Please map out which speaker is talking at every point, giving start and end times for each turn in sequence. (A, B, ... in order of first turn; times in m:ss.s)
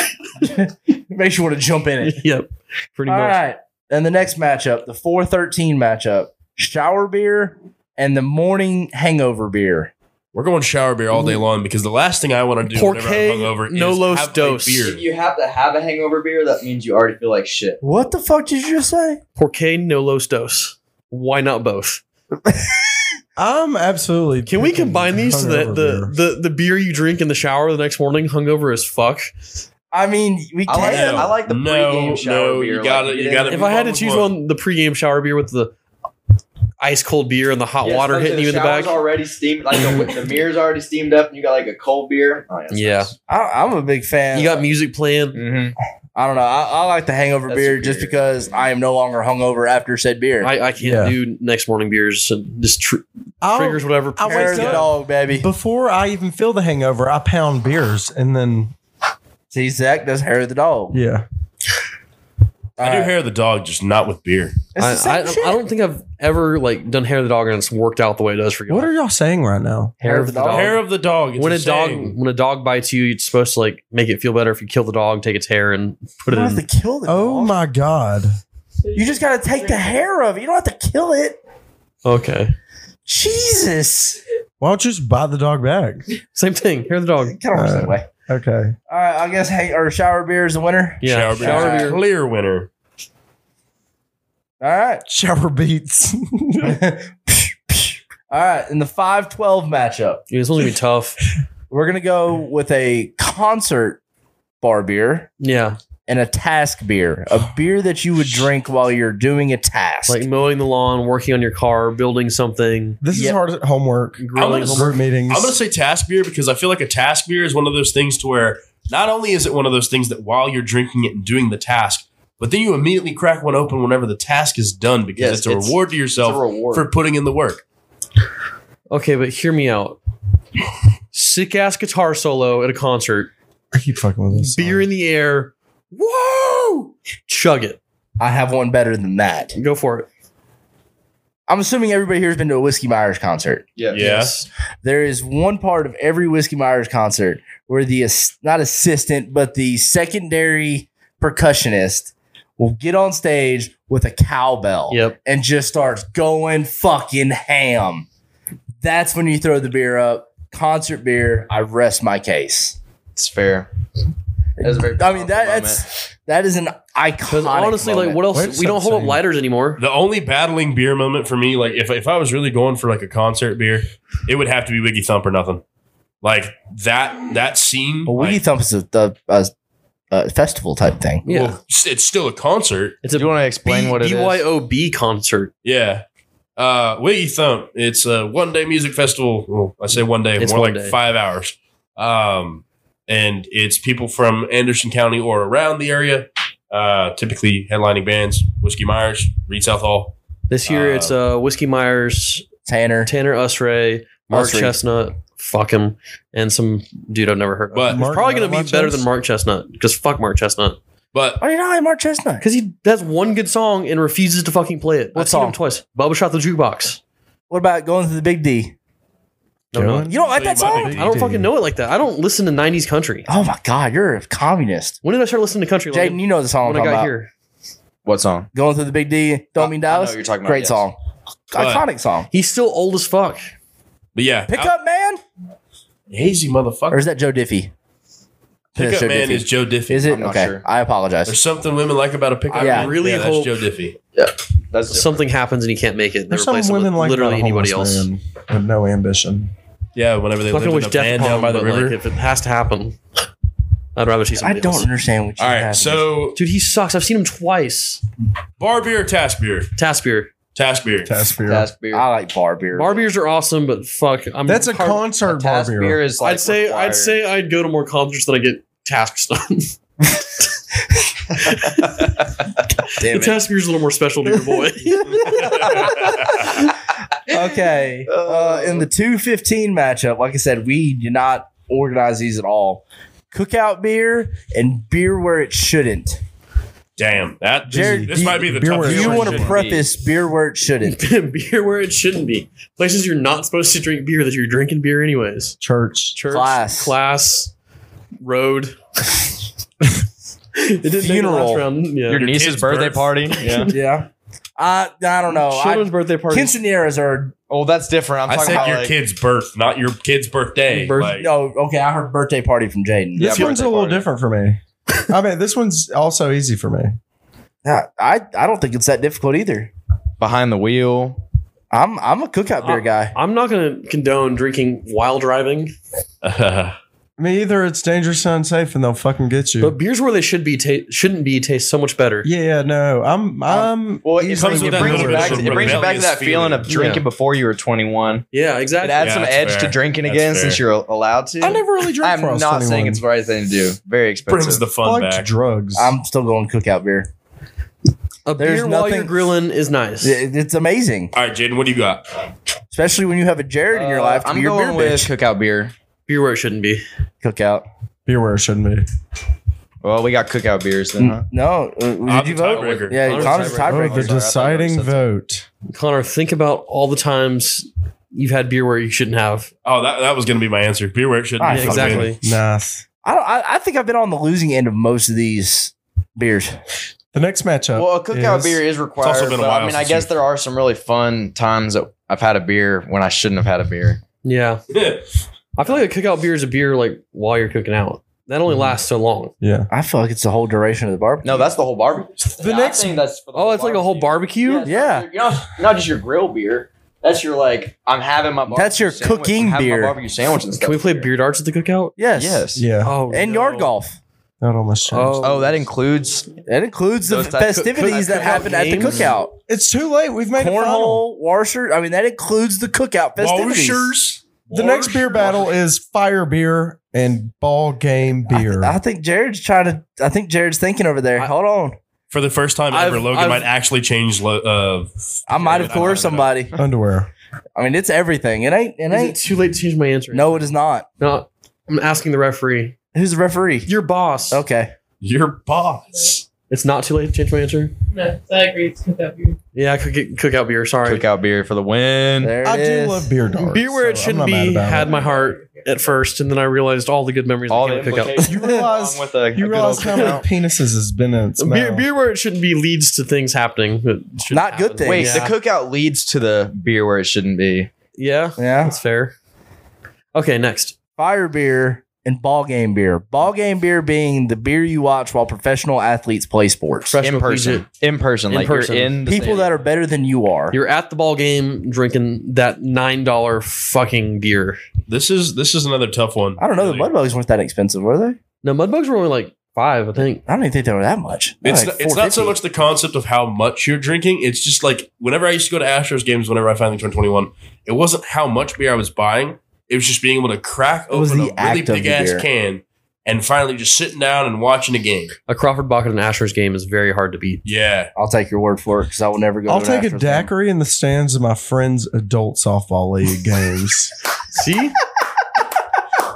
0:00.4-0:02.2 A
0:02.0-0:03.4 B
0:03.1-0:09.9 A
0:10.3-0:15.0 C
0:12.7-0:14.9 B
0:14.8-0:17.8 D
0:17.8-0:19.2 A
0:19.4-0:22.0 B
0:22.5-0:22.7 A
0:23.4-0:26.1 E
0:24.4-0:29.3 B
0:29.9-0:31.3 A
0:30.6-0:33.6 D
0:30.7-0:34.3 C
0:33.5-0:35.7 B
0:36.8-0:39.0 B
0:37.8-0:43.1 D
0:39.8-0:40.1 B
0:42.7-0:43.1 B
0:43.3-0:44.6 A
0:44.3-0:45.4 B
0:45.3-0:45.7 D
0:46.1-0:50.5 A
0:47.5-0:48.4 D
0:50.4-0:54.9 B
0:50.8-0:51.2 E
0:53.4-0:58.7 E
0:54.2-0:55.5 A
0:59.5-1:01.0 A
1:00.9-1:01.2 E
1:02.8-1:03.1 A
1:02.8-1:04.6 C
1:04.7-1:05.6 A
1:04.8-1:08.9 B
1:08.7-1:10.0 E
1:10.0-1:10.8 A
1:10.0-1:10.8 B
1:10.5-1:12.1 C
1:11.4-1:16.6 B
1:16.3-1:17.6 A
1:17.0-1:18.4 E
1:18.9-1:21.4 A
1:22.0-1:22.5 B
1:23.1-1:24.2 A
1:24.6-1:26.0 E
1:26.3-1:27.4 B
1:27.2-1:28.0 A
1:27.5-1:28.7 E
1:28.9-1:32.0 A
1:31.0-1:32.0 B
1:31.0-1:32.7 C
1:34.6-1:35.0 A
1:35.1-1:36.8 E
1:36.6-1:40.2 A
1:40.3-1:41.2 B
1:41.7-1:44.0 A
1:44.6-1:45.3 A
1:45.4-1:45.8 B
1:46.1-1:50.2 A
1:50.1-1:53.0 B
1:53.0-1:55.6 E
1:53.1-1:53.4 A
1:54.2-1:54.9 B
1:54.3-2:07.6 C
2:05.2-2:06.9 D
2:08.9-2:10.0 B
2:11.1-2:13.3 B
2:13.7-2:14.9 E
2:14.3-2:17.8 B
2:18.2-2:19.6 A
2:19.6-2:20.1 B
2:21.5-2:23.6 A
2:23.9-2:24.3 C
2:23.9-2:24.5 B
2:24.8-2:38.0 A
2:34.9-2:35.2 B
2:38.8-2:42.8 A
2:43.2-2:43.7 D
2:44.6-2:48.2 A
2:44.6-2:45.8 D
2:47.3-2:49.8 B
2:48.3-2:49.2 E
2:49.8-2:55.6 C
2:56.2-2:58.4 C
2:58.0-2:59.5 A
3:00.1-3:01.2 A
3:01.2-3:01.6 B
3:01.3-3:03.0 C
3:03.0-3:05.5 B
3:03.1-3:04.4 D
3:05.6-3:06.0 C
3:06.6-3:20.1 C
3:10.4-3:11.0 B
3:20.5-3:22.4 B
3:20.7-3:21.2 C
3:22.6-3:23.1 A
3:23.0-3:30.8 B
3:24.3-3:24.7 A
3:27.7-3:28.0 C
3:27.9-3:29.1 E
3:31.1-3:31.4 C
3:31.4-3:32.4 A
3:32.4-3:37.0 B
3:35.1-3:35.6 A
3:37.5-3:38.7 A
3:39.7-3:40.1 B
3:39.7-3:41.5 E
3:40.1-3:41.0 A
3:40.3-3:41.1 C
3:40.8-3:43.3 B
3:43.3-3:45.0 A
3:45.0-3:47.3 B
3:45.9-3:47.1 A
3:48.0-3:48.5 D
3:48.5-3:51.0 A
3:49.6-3:50.9 D
3:51.5-3:52.3 A
3:51.5-3:51.8 C
3:52.3-3:53.4 B
3:54.1-3:54.7 C
3:54.5-3:55.2 A
3:56.1-3:57.0 C
3:56.9-3:57.7 A
3:58.7-4:01.4 A
3:58.8-4:00.1 C
4:00.1-4:00.6 D
4:01.2-4:04.0 C
4:02.5-4:03.5 B
4:02.5-4:02.9 A
4:04.2-4:05.2 D
4:04.9-4:08.1 B
4:06.3-4:09.5 E
4:09.9-4:12.0 C
4:10.5-4:13.0 B
4:14.0-4:14.9 B
4:14.4-4:16.1 A
4:15.4-4:16.4 C
4:16.3-4:18.0 B
4:18.6-4:19.7 C
4:19.8-4:20.3 B
4:20.5-4:21.1 C
4:21.0-4:21.7 E
4:21.4-4:22.1 D
4:21.9-4:23.0 A
4:22.7-4:25.0 B
4:24.4-4:26.0 E
4:25.2-4:27.2 D
4:26.2-4:30.1 B
4:31.4-4:32.2 B
4:32.9-4:35.9 B
4:33.0-4:33.4 A
4:34.9-4:36.7 A
4:35.3-4:36.4 C
4:37.3-4:46.2 A
4:38.1-4:38.9 D
4:47.0-4:49.5 C
4:47.7-4:49.5 E
4:47.7-4:51.0 A
4:49.3-4:49.8 D
4:50.8-4:55.6 B
4:55.6-4:56.2 E
4:56.1-4:57.5 B
4:56.3-4:56.9 A
4:58.2-4:58.8 B
5:00.6-5:02.2 B
5:00.9-5:01.7 A
5:02.1-5:03.7 D
5:02.1-5:03.2 C
5:03.3-5:03.8 B
5:03.7-5:04.1 A
5:04.6-5:07.3 A
5:05.3-5:06.6 B
5:07.5-5:08.9 D
5:08.3-5:11.3 C
5:10.7-5:11.2 B
5:11.2-5:13.5 A
5:13.2-5:14.0 D
5:13.2-5:17.0 E
5:17.6-5:19.7 A
5:20.2-5:21.2 D
5:21.7-5:23.1 A
5:22.6-5:25.7 B
5:26.2-5:26.8 C
5:27.2-5:29.7 E
5:29.6-5:32.3 B
5:32.2-5:35.9 E
5:33.5-5:38.2 D
5:34.3-5:36.7 C
5:36.7-5:37.0 B
5:38.3-5:39.1 B
5:38.8-5:44.6 D
5:39.0-5:40.6 C
5:41.4-5:43.0 E
5:44.3-5:45.3 C
5:44.8-5:45.9 E
5:45.7-5:47.1 A
5:48.2-5:50.2 B
5:48.4-5:49.3 A
5:50.0-5:51.1 A
5:51.1-5:52.0 C
5:52.7-5:55.1 A
5:53.7-5:55.7 D
5:56.1-5:56.8 B
5:57.2-5:57.6 A
5:58.0-5:58.8 E
5:59.8-6:01.2 D
6:01.0-6:04.2 A
6:02.0-6:03.3 C
6:02.7-6:05.0 D
6:03.0-6:03.9 B
6:03.7-6:05.4 E
6:05.7-6:09.5 B
6:09.6-6:12.1 C
6:11.4-6:12.1 A
6:11.5-6:12.2 B
6:12.2-6:12.8 E
6:13.0-6:16.6 A
6:17.1-6:18.6 E
6:17.7-6:24.0 D
6:19.0-6:20.1 C
6:24.2-6:24.6 B
6:24.7-6:25.0 C
6:25.6-6:29.3 B
6:29.4-6:29.7 E
6:29.7-6:31.5 A
6:31.2-6:41.1 D
6:32.4-6:33.0 E
6:33.3-6:34.7 B
6:34.6-6:35.1 A
6:38.5-6:39.9 A
6:40.6-6:42.0 B
6:42.0-6:42.4 A
6:42.2-6:42.6 D
6:42.6-6:43.0 E
6:42.8-6:43.7 B
6:43.1-6:44.0 A
6:44.4-6:45.2 E
6:44.9-6:45.5 B
6:45.2-6:46.3 D
6:46.4-6:49.3 A
6:47.1-6:49.1 D
6:47.5-6:49.1 B
6:49.5-6:51.0 E
6:50.4-6:53.9 A
6:53.2-6:55.4 C
6:54.5-6:58.8 E
6:58.3-7:01.8 A
7:02.1-7:06.3 C
7:02.7-7:03.5 B
7:05.3-7:06.6 A
7:05.6-7:06.1 D
7:06.5-7:07.1 E
7:07.6-7:09.2 A
7:08.9-7:10.5 B
7:10.1-7:10.8 A
7:11.0-7:12.7 B
7:12.9-7:13.7 A
7:13.6-7:14.4 B
7:14.3-7:14.7 A
7:15.0-7:16.2 C
7:16.5-7:17.7 B
7:17.9-7:19.4 F
7:19.5-7:21.0 B
7:20.8-7:22.4 D
7:22.2-7:23.1 A
7:22.4-7:24.9 E
7:23.4-7:28.3 B
7:24.7-7:25.9 F
7:27.5-7:30.2 D
7:28.2-7:31.9 E
7:29.8-7:30.2 B
7:31.4-7:35.3 B
7:34.3-7:35.3 A
7:34.8-7:37.7 D
7:38.0-7:39.1 B
7:38.4-7:38.8 A
7:40.1-7:40.7 B
7:41.0-7:47.0 A
7:46.9-7:47.6 B
7:47.0-7:49.5 D
7:48.3-7:49.0 B
7:49.0-7:50.6 A
7:50.5-7:54.6 B
7:54.9-7:56.9 C
7:56.4-7:58.2 A
7:58.4-8:00.2 B
8:00.3-8:02.4 A
8:01.4-8:15.1 C
8:10.9-8:12.2 A
8:15.3-8:17.4 B
8:17.4-8:17.9 C
8:18.0-8:20.3 A
8:19.5-8:23.9 E
8:24.3-8:24.8 B